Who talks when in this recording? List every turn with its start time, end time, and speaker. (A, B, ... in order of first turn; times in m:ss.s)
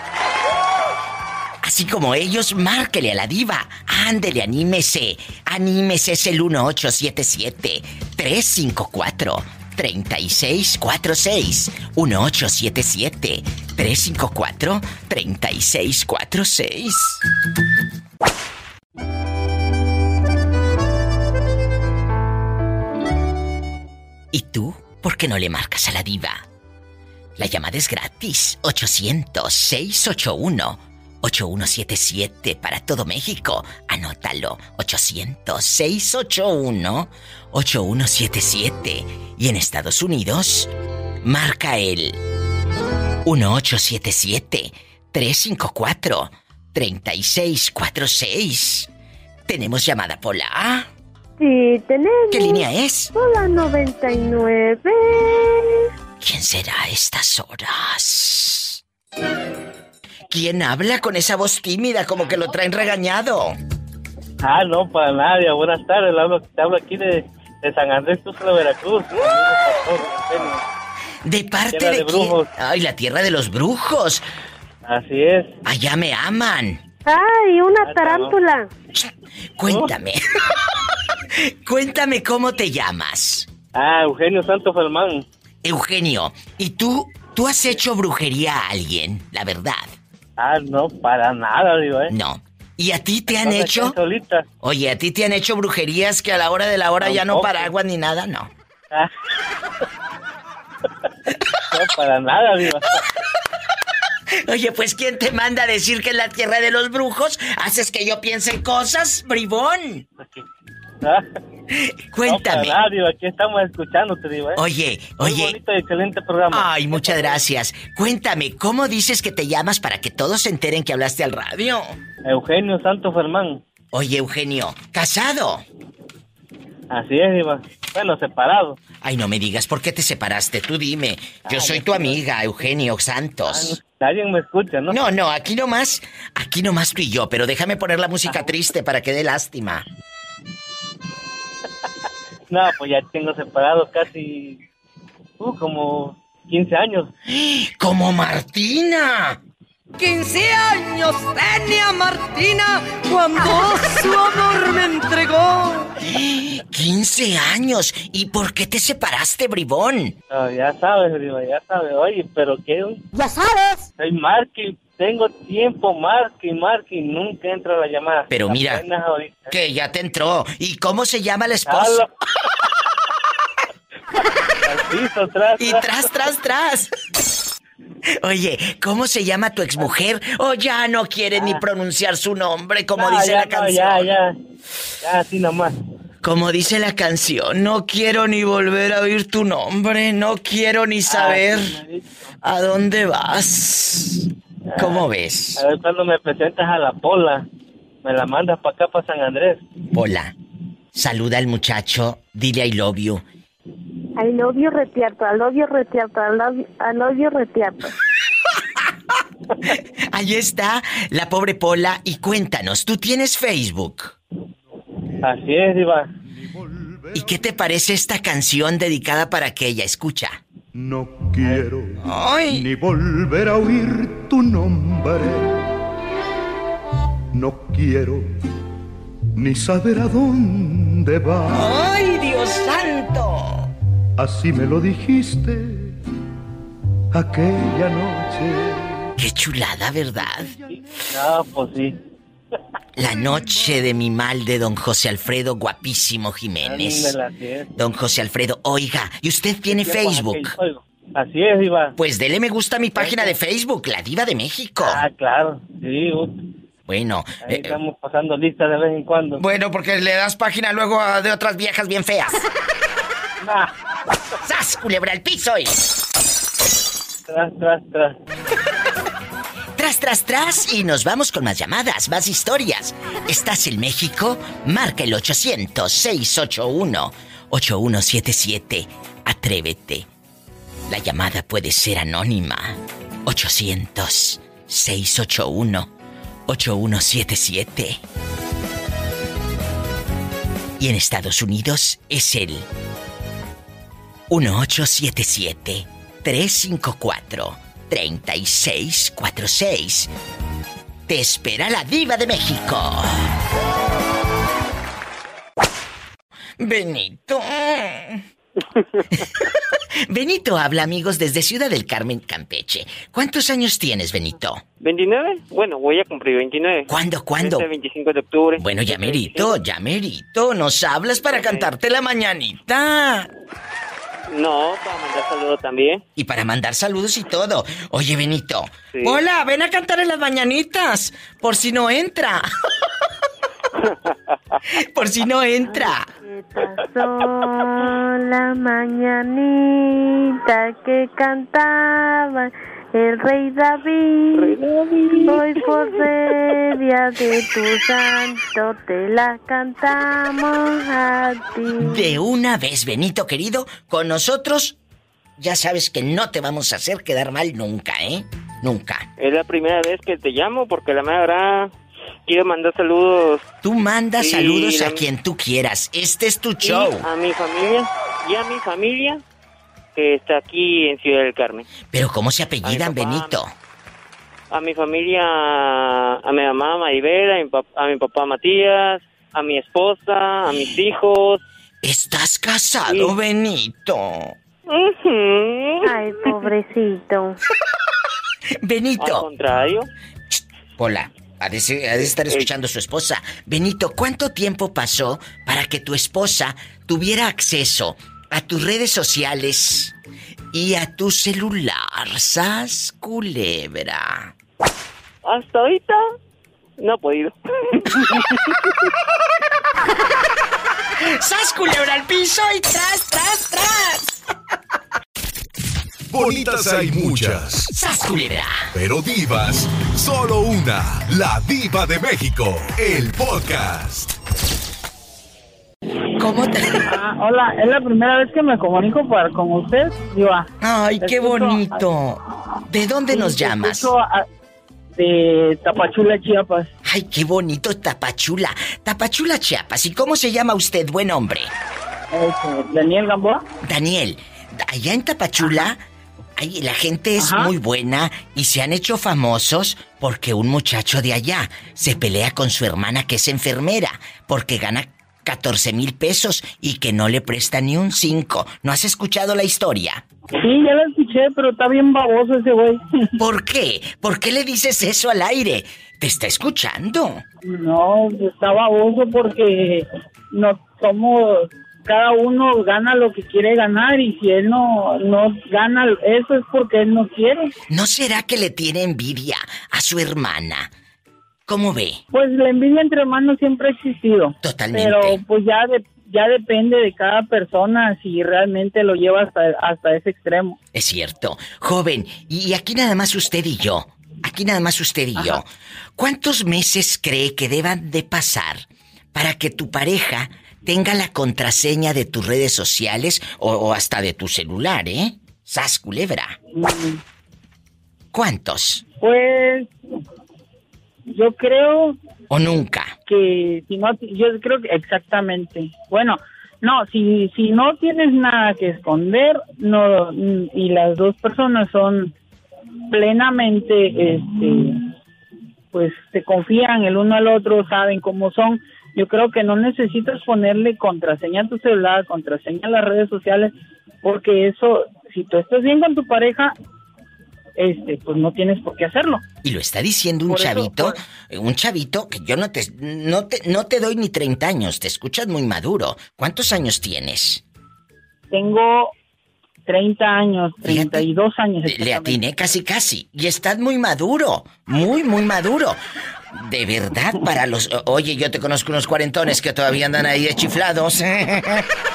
0:01.6-0:17.2 A
0:24.3-0:26.4 A
0:27.4-0:40.7 A
0:41.2-0:42.2 A
0:43.2-0:48.9 A
0:49.5-0:50.9 A
0:51.4-0:55.9 B
0:52.3-0:53.1 A
0:56.2-0:58.8 A
1:00.3-1:03.6 A
1:04.4-1:10.6 C
1:11.2-1:14.2 A
1:11.7-1:12.5 C
1:14.9-1:15.6 C
1:15.6-1:16.8 A
1:17.1-1:18.7 B
1:17.8-1:18.4 C
1:19.0-1:20.2 A
1:21.3-1:23.5 A
1:23.8-1:25.3 C
1:25.6-1:29.9 A
1:30.4-1:32.1 C
1:32.1-1:34.0 A
1:33.3-1:34.5 C
1:34.6-1:38.5 A
1:37.0-1:37.7 C
1:41.7-1:43.0 C
1:44.4-1:50.1 A
1:50.2-1:50.4 C
1:51.0-1:51.3 C
1:51.7-1:52.8 A
1:52.2-1:54.6 C
1:54.6-1:55.6 A
1:55.2-1:57.4 C
1:56.5-2:01.9 A
2:02.2-2:03.6 C
2:03.9-2:05.6 A
2:06.9-2:08.8 C
2:09.0-2:13.8 A
2:11.5-2:12.2 C
2:13.5-2:15.0 C
2:14.9-2:19.8 A
2:18.3-2:18.5 C
2:22.5-2:24.6 C
2:25.4-2:27.1 C
2:27.3-2:29.4 A
2:30.0-2:35.9 D
2:36.0-2:40.2 A
2:40.3-2:43.0 C
2:44.0-2:49.5 C
2:48.3-2:48.8 A
2:49.5-2:52.0 A
2:51.7-2:52.1 C
2:54.6-2:55.9 C
2:55.6-2:56.9 A
2:58.2-3:04.1 A
3:01.4-3:01.6 C
3:03.0-3:04.4 C
3:05.0-3:05.8 C
3:06.2-3:11.8 A
3:11.1-3:12.2 C
3:12.4-3:15.6 A
3:14.7-3:15.1 C
3:15.6-3:17.5 C
3:18.0-3:19.6 C
3:19.9-3:20.3 A
3:20.9-3:23.2 A
3:24.2-3:27.8 B
3:30.1-3:34.2 A
3:35.1-3:35.3 E
3:35.2-3:36.1 C
3:36.2-3:37.7 E
3:37.2-3:40.4 A
3:40.7-3:45.7 E
3:42.0-3:42.7 A
3:47.3-3:48.3 E
3:49.4-3:51.7 E
3:51.5-3:53.7 A
3:54.2-3:56.0 E
3:57.1-3:59.1 E
3:59.2-4:00.5 A
4:00.4-4:00.8 E
4:00.7-4:02.0 C
4:03.0-4:07.2 A
4:03.4-4:03.8 E
4:06.6-4:07.7 C
4:07.8-4:10.6 A
4:09.7-4:12.0 C
4:12.0-4:15.0 A
4:13.0-4:13.4 C
4:14.8-4:16.4 C
4:16.9-4:17.8 A
4:17.4-4:19.4 C
4:19.4-4:22.5 A
4:23.4-4:23.7 C
4:24.4-4:25.8 A
4:27.3-4:28.2 C
4:29.8-4:40.1 A
4:40.9-4:45.9 A
4:46.5-4:48.0 A
4:50.8-4:52.7 A
4:54.3-5:00.1 A
5:01.1-5:03.3 A
5:06.6-5:08.2 A
5:09.2-5:09.5 A
5:10.1-5:14.6 A
5:14.8-5:19.6 F
5:16.9-5:17.7 A
5:18.6-5:23.3 A
5:21.2-5:21.7 F
5:24.3-5:26.0 F
5:26.2-5:32.5 A
5:28.9-5:29.2 F
5:34.7-5:36.1 A
5:36.2-5:44.6 B
5:45.2-5:52.1 B
5:51.8-5:54.8 A
5:55.4-5:59.1 A
5:59.2-6:01.7 F
6:02.3-6:03.5 F
6:03.6-6:07.1 A
6:04.2-6:05.0 F
6:06.6-6:09.2 F
6:10.0-6:11.7 F
6:11.9-6:13.5 A
6:12.6-6:13.4 F
6:14.5-6:21.4 F
6:21.8-6:24.4 A
6:22.9-6:23.2 F
6:24.7-6:26.4 F
6:25.8-6:27.4 B
6:28.6-6:29.3 A
6:29.0-6:29.9 F
6:30.3-6:39.9 A
6:32.1-6:32.5 F
6:40.5-6:44.3 A
6:45.2-6:46.0 F
6:46.8-6:48.2 F
6:51.0-6:54.2 A
6:56.1-6:57.7 G
6:57.7-6:58.7 A
6:58.7-7:04.1 G
7:06.2-7:06.9 A
7:06.9-7:10.5 H
7:10.6-7:13.9 A
7:11.0-7:11.8 H
7:13.1-7:14.3 H
7:15.0-7:16.7 H
7:16.8-7:21.5 A
7:22.1-7:23.4 H
7:23.6-7:25.8 A
7:26.4-7:40.0 A
7:27.2-7:27.5 H
7:40.4-7:42.8 H
7:43.2-7:47.2 A
7:47.4-7:57.5 H
7:57.7-8:00.7 A
8:01.5-8:02.0 A
8:02.1-8:10.6 H
8:04.4-8:05.2 A
8:10.7-8:26.4 A
8:26.5-8:27.0 H
8:28.1-8:28.8 A
8:29.0-8:29.7 H
8:31.1-8:32.0 H
8:32.3-8:33.0 A
8:33.1-8:42.1 H
8:42.9-8:44.9 H
8:45.7-8:56.6 H
8:57.6-8:59.2 H
8:59.4-9:07.4 A
9:00.3-9:01.0 H
9:08.3-9:08.9 H
9:09.7-9:12.2 H
9:10.6-9:11.1 A
9:11.6-9:15.8 A
9:16.3-9:21.7 A